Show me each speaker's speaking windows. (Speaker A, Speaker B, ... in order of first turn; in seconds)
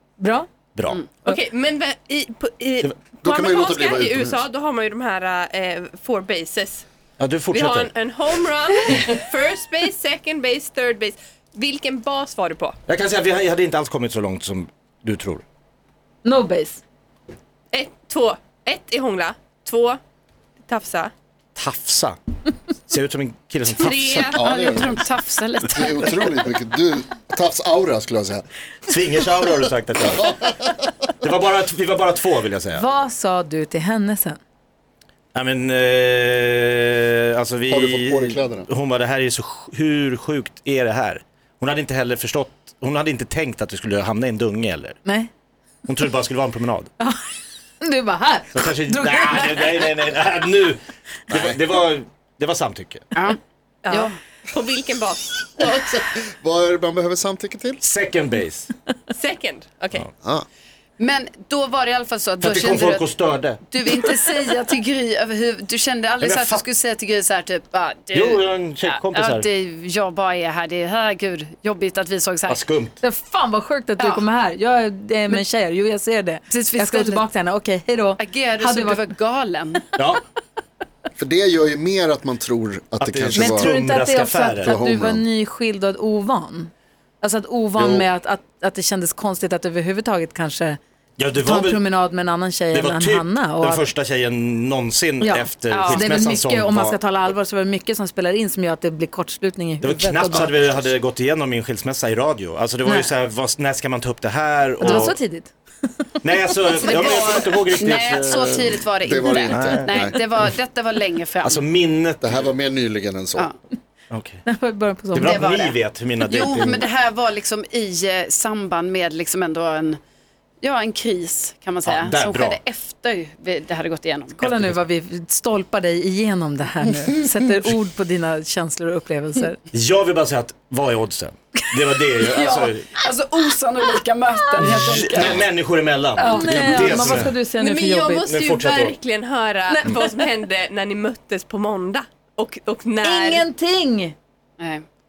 Speaker A: 0.2-0.5, 16.2-16.8, 32.7-34.4, 45.0-45.3, 47.8-49.8, 73.0-79.1, 83.3-90.8, 91.3-93.9, 95.2-100.6, 102.8-103.2, 104.8-105.5, 114.5-115.5, 124.4-129.6, 134.6-134.9, 136.2-138.3, 139.7-140.1, 143.0-144.2
Speaker B: 0.8-1.1, 7.2-7.9, 12.9-15.4, 21.6-22.2, 22.9-24.4, 28.9-30.6, 31.2-32.9, 35.3-45.0, 45.9-46.9, 48.5-50.8, 51.3-53.0, 57.8-58.7, 62.4-63.6, 66.2-66.6, 68.1-69.5, 72.5-73.0, 80.0-80.2, 83.0-84.8, 87.8-88.0, 91.2-91.9, 92.7-97.2, 99.8-105.2, 106.2-108.8, 109.5-110.0, 111.4-112.4, 114.1-114.4, 115.1-116.9, 121.8-122.6, 124.5-124.8, 129.7-132.9, 134.6-137.3, 138.2-139.0
Speaker C: 1.1-6.8, 7.5-12.8, 17.7-20.0, 20.6-21.1, 23.7-24.4, 54.5-56.0, 59.1-60.1, 137.4-143.5
Speaker D: 3.2-4.4, 24.4-25.0, 25.7-28.4, 30.2-30.8, 37.7-38.7, 51.3-51.6, 55.6-57.8, 81.2-83.7, 84.6-85.2, 109.0-110.2, 112.2-113.5
Speaker E: 24.4-26.2, 53.9-54.1, 61.0-63.1, 63.7-72.6, 74.0-74.2, 76.5-77.2, 78.2-79.8, 95.7-96.1, 106.7-111.6, 115.2-120.0, 120.6-124.4, 132.2-135.5, 136.2-137.1, 144.6-144.8